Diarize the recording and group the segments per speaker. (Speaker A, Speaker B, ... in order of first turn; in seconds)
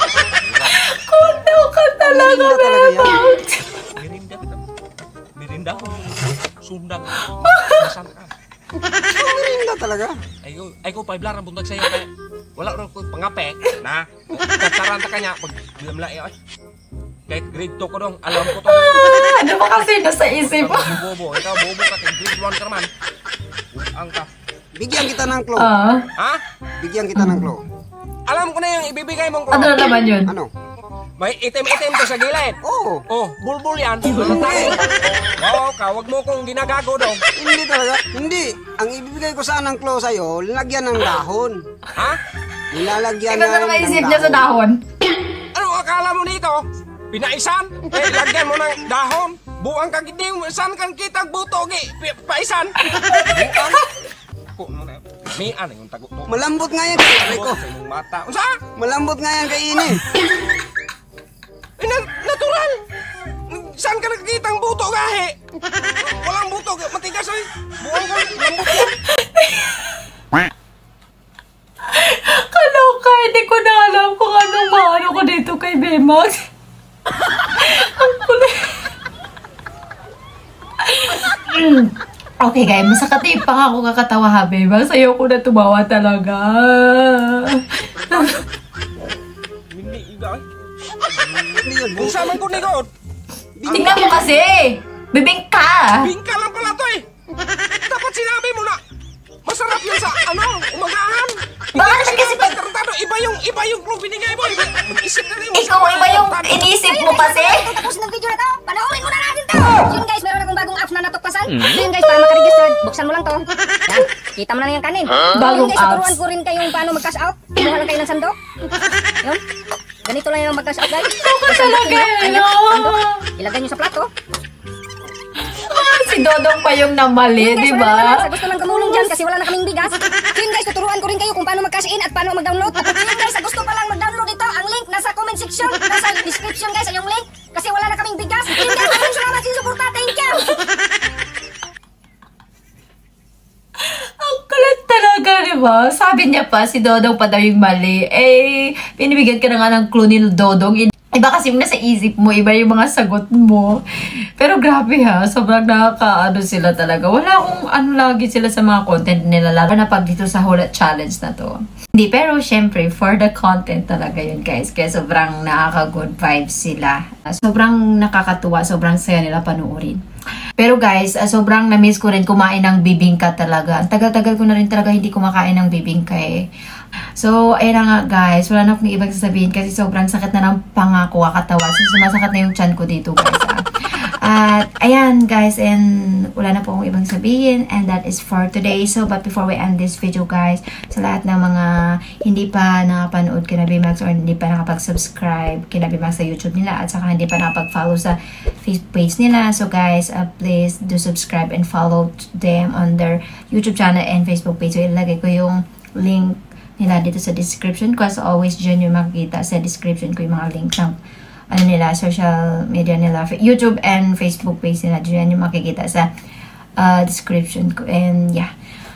Speaker A: 0.3-0.9, 4.0-4.6, 5.3-8.3, 10.4-16.3, 17.3-19.3, 20.4-22.9, 23.7-24.3, 28.3-29.8, 31.2-32.6, 33.1-34.8, 35.4-37.2, 45.5-53.9, 54.5-58.6, 61.8-62.8, 63.5-65.3, 66.0-69.0, 88.0-88.4, 89.7-90.4, 91.2-92.9, 96.0-97.0, 97.8-98.8, 99.4-106.6
Speaker B: 0.8-3.9, 7.4-7.7, 18.5-21.0, 25.6-26.1, 27.1-27.5, 29.5-30.3, 43.3-44.8, 69.1-69.9, 71.9-76.4, 77.3-78.8, 80.8-88.4, 93.7-96.1, 101.8-102.3, 105.5-107.7, 115.3-116.2, 121.2-123.3, 125.6-129.1, 143.8-170.0, 170.6-176.5, 177.2-183.6, 184.2-210.9, 211.5-216.1, 216.8-218.5
Speaker C: 2.0-3.2, 9.1-10.2, 24.8-25.7, 26.8-27.6, 30.2-30.5, 32.6-33.0, 34.2-34.8, 37.4-41.6, 42.7-44.5, 56.3-57.6, 58.8-60.0, 91.5-92.2, 93.6-94.2
Speaker D: 101.8-102.6, 106.8-118.4, 120.0-124.1, 127.3-140.6